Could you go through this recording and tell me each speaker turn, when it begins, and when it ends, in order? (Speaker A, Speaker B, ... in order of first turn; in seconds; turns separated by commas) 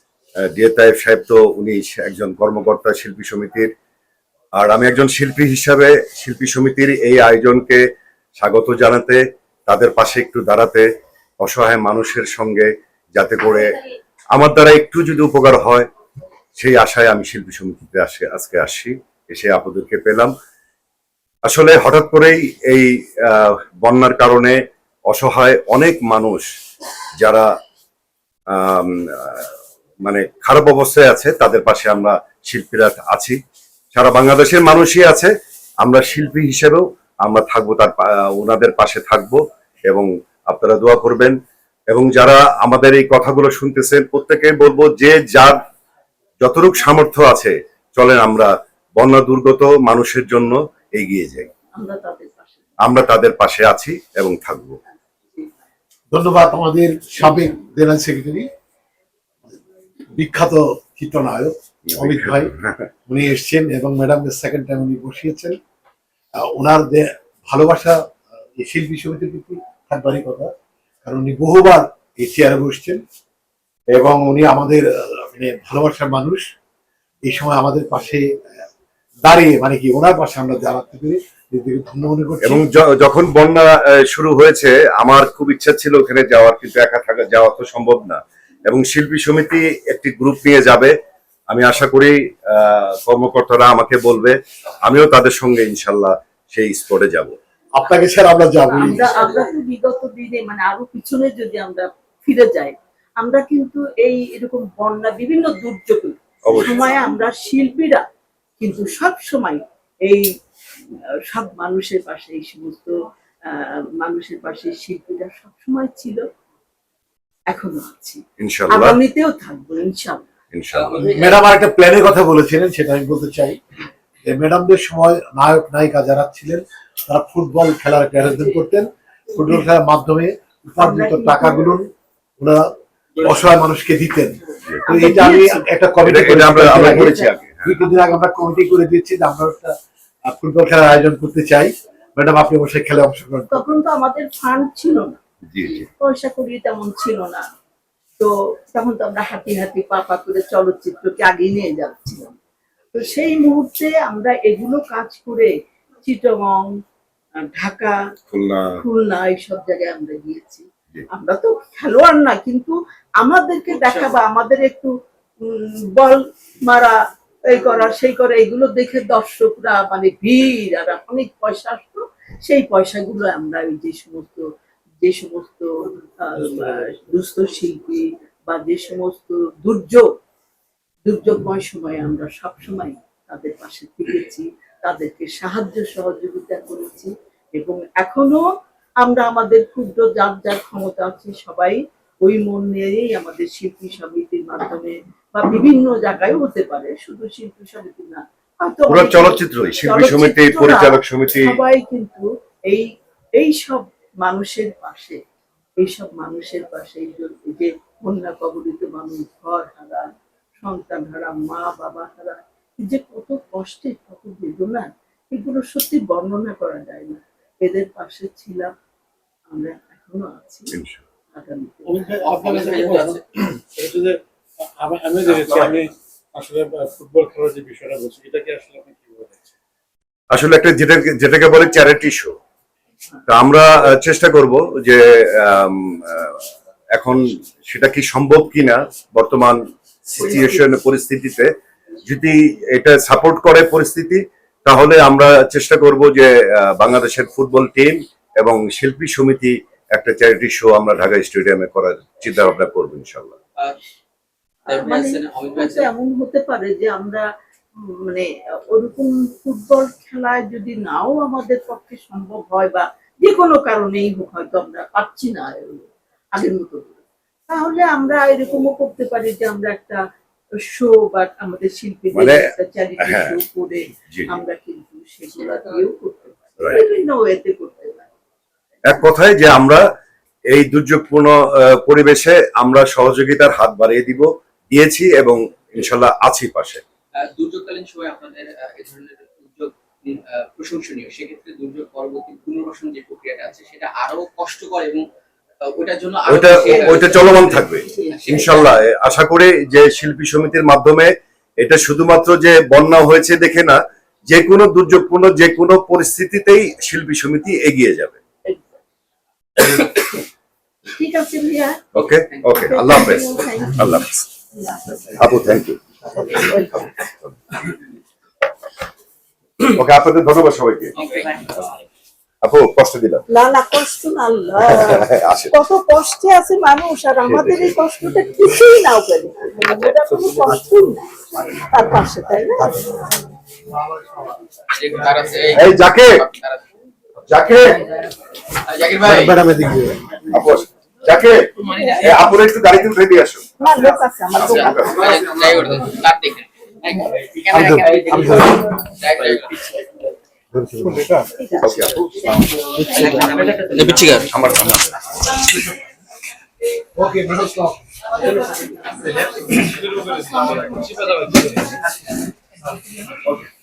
Speaker A: 0.5-3.7, Speaker A: 4.6-7.8, Speaker A: 8.4-10.9, Speaker A: 11.4-13.8, Speaker A: 14.3-15.9, Speaker A: 16.6-20.3, Speaker A: 21.5-24.6, Speaker A: 25.1-26.5, Speaker A: 27.2-27.5, Speaker A: 28.5-29.5, Speaker A: 30.1-33.4, Speaker A: 33.9-35.3, Speaker A: 35.8-41.4, Speaker A: 41.9-45.6, Speaker A: 46.4-51.5, Speaker B: 51.8-52.7, Speaker A: 52.8-54.8, Speaker C: 56.1-58.5, Speaker C: 60.2-62.5, Speaker A: 61.9-62.9, Speaker C: 63.1-65.6, Speaker C: 66.4-70.5, Speaker C: 71.0-73.0, Speaker C: 73.9-76.5, Speaker C: 77.3-78.3, Speaker C: 79.2-82.6, Speaker A: 82.4-90.9, Speaker A: 91.5-97.3, Speaker C: 97.8-99.2, Speaker B: 98.7-108.0, Speaker A: 106.5-106.8, Speaker B: 108.6-110.2, Speaker B: 111.3-112.9, Speaker B: 113.5-116.2, Speaker B: 117.5-120.2, Speaker A: 118.4-119.0, Speaker A: 120.5-121.0, Speaker D: 120.7-121.4, Speaker C: 121.0-123.6, Speaker C: 124.2-131.9, Speaker B: 130.8-131.7, Speaker C: 132.4-139.7, Speaker D: 133.2-133.5, Speaker B: 134.8-135.6, Speaker A: 136.0-137.8, Speaker B: 136.8-137.3, Speaker C: 140.2-143.6, Speaker B: 143.5-145.2, Speaker A: 145.5-145.9, Speaker B: 145.9-147.4, Speaker B: 148.2-152.3, Speaker B: 152.9-155.5, Speaker B: 156.0-156.7, Speaker B: 157.4-158.0, Speaker A: 158.3-158.8, Speaker B: 158.8-164.9, Speaker D: 163.7-164.2, Speaker B: 165.4-174.4, Speaker B: 175.0-180.1, Speaker B: 181.1-188.4, Speaker B: 189.0-202.9, Speaker A: 198.9-201.5, Speaker B: 203.4-205.2, Speaker B: 205.8-210.1, Speaker B: 210.6-218.7, Speaker B: 219.5-220.7, Speaker A: 220.7-221.0, Speaker B: 221.3-222.3, Speaker E: 221.9-224.1, Speaker D: 222.3-223.2, Speaker E: 224.8-229.4, Speaker A: 225.3-225.8, Speaker A: 230.3-232.3, Speaker A: 233.3-236.4, Speaker A: 237.0-241.5, Speaker B: 240.2-240.6, Speaker A: 242.1-253.4, Speaker D: 254.7-255.9, Speaker B: 254.7-257.2, Speaker B: 257.9-270.0, Speaker B: 270.6-278.1, Speaker A: 272.1-272.4, Speaker A: 273.0-273.4, Speaker A: 278.9-279.8, Speaker A: 280.5-286.8, Speaker D: 287.2-295.1, Speaker D: 295.6-298.8, Speaker A: 296.3-303.8, Speaker B: 296.6-298.5, Speaker A: 304.3-308.2, Speaker B: 308.5-308.8, Speaker B: 310.9-311.9, Speaker A: 311.9-314.3, Speaker D: 312.2-312.5, Speaker B: 312.6-315.2, Speaker A: 315.1-317.4, Speaker B: 316.2-316.9, Speaker A: 319.6-320.9, Speaker D: 321.0-321.8, Speaker A: 322.4-323.2, Speaker B: 323.3-332.8, Speaker A: 324.6-325.5, Speaker A: 327.3-327.7, Speaker C: 332.6-333.1, Speaker C: 333.8-334.4, Speaker D: 334.7-336.6, Speaker A: 335.5-336.2, Speaker A: 337.3-337.8, Speaker D: 338.7-339.4, Speaker C: 339.0-340.2, Speaker A: 340.3-343.5, Speaker D: 341.6-342.3, Speaker B: 341.6-342.2, Speaker B: 343.6-345.2, Speaker A: 344.4-345.2, Speaker D: 344.5-350.1, Speaker C: 347.5-348.6, Speaker C: 350.5-351.3, Speaker E: 350.9-351.1, Speaker B: 351.4-354.2, Speaker A: 351.6-352.2, Speaker C: 352.9-353.1, Speaker D: 352.9-354.7, Speaker A: 354.3-354.8, Speaker C: 357.0-358.3, Speaker B: 358.3-359.2, Speaker C: 359.1-359.5, Speaker E: 359.7-361.8